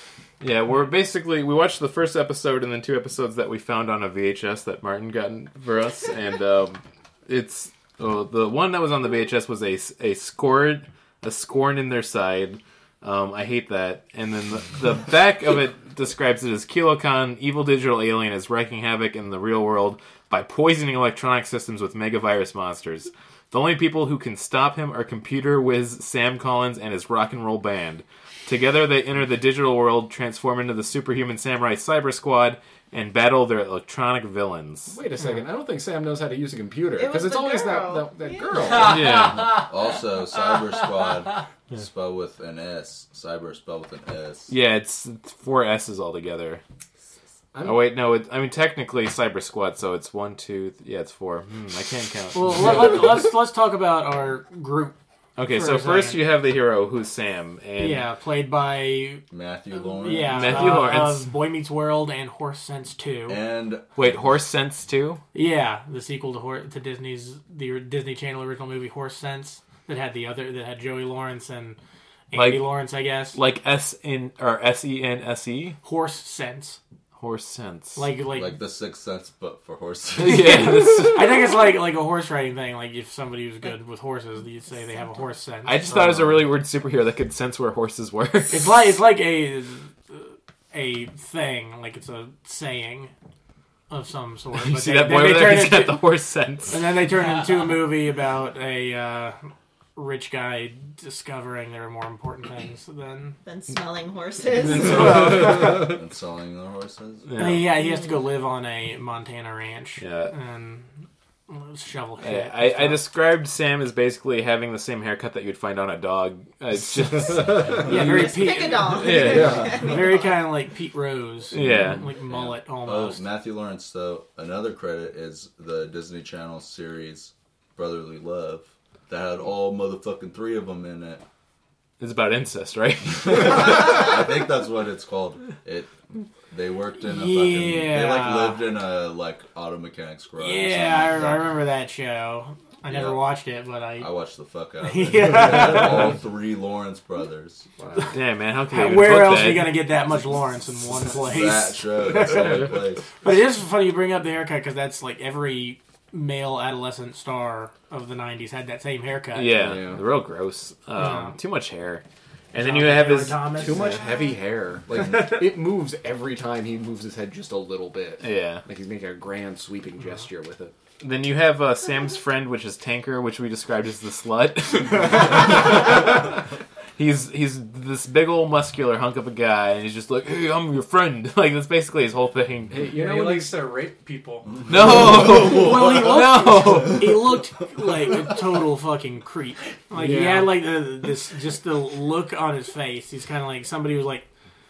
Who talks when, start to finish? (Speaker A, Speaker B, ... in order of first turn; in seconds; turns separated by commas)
Speaker A: 0.4-35.0, Speaker B: 34.9-39.0, Speaker C: 37.0-38.7, Speaker A: 38.8-39.5, Speaker D: 38.8-39.7, Speaker E: 39.1-44.5, Speaker D: 40.3-41.2, Speaker A: 44.5-46.6, Speaker B: 47.5-47.9, Speaker A: 47.6-53.0, Speaker F: 52.3-55.0, Speaker A: 55.4-58.0, Speaker F: 55.5-56.2, Speaker F: 57.8-59.2, Speaker E: 59.3-60.7, Speaker F: 59.9-63.4, Speaker A: 60.3-61.3, Speaker E: 63.3-63.9, Speaker A: 64.0-65.2, Speaker F: 65.3-71.8, Speaker F: 72.3-73.4, Speaker A: 72.3-72.7, Speaker A: 73.3-75.8, Speaker F: 75.8-76.8, Speaker A: 77.2-78.0, Speaker F: 78.0-78.5, Speaker E: 78.3-80.8, Speaker A: 80.2-81.5, Speaker F: 80.3-86.5, Speaker A: 85.7-88.8, Speaker F: 88.5-93.1, Speaker F: 93.9-96.1, Speaker A: 94.5-96.9, Speaker F: 96.7-99.4, Speaker F: 100.0-103.4, Speaker C: 103.4-105.6, Speaker E: 104.7-107.6, Speaker A: 105.0-105.6, Speaker B: 105.0-105.8, Speaker A: 107.3-107.7, Speaker F: 107.4-110.9, Speaker A: 110.0-110.3, Speaker F: 111.5-113.0, Speaker A: 112.2-119.8, Speaker B: 117.2-118.0, Speaker F: 117.8-123.2, Speaker C: 117.9-120.3, Speaker B: 119.1-119.9, Speaker A: 121.5-122.1, Speaker E: 122.3-131.2, Speaker A: 132.0-133.9, Speaker E: 133.2-135.9, Speaker E: 136.5-141.5, Speaker F: 137.0-138.6, Speaker F: 140.4-144.1, Speaker E: 142.9-143.2, Speaker E: 144.0-147.7, Speaker F: 144.8-146.2, Speaker B: 147.8-148.1, Speaker A: 148.1-149.8, Speaker F: 148.7-159.8, Speaker E: 151.2-153.1, Speaker A: 159.3-164.0, Speaker B: 159.6-160.0, Speaker F: 161.0-161.3, Speaker F: 162.6-164.0, Speaker B: 163.6-170.7, Speaker A: 168.2-168.6, Speaker A: 171.0-176.3, Speaker A: 177.0-182.9, Speaker B: 182.7-183.6, Speaker D: 182.9-184.8, Speaker A: 184.7-187.2, Speaker F: 184.9-194.3, Speaker E: 185.0-185.5, Speaker B: 189.9-190.6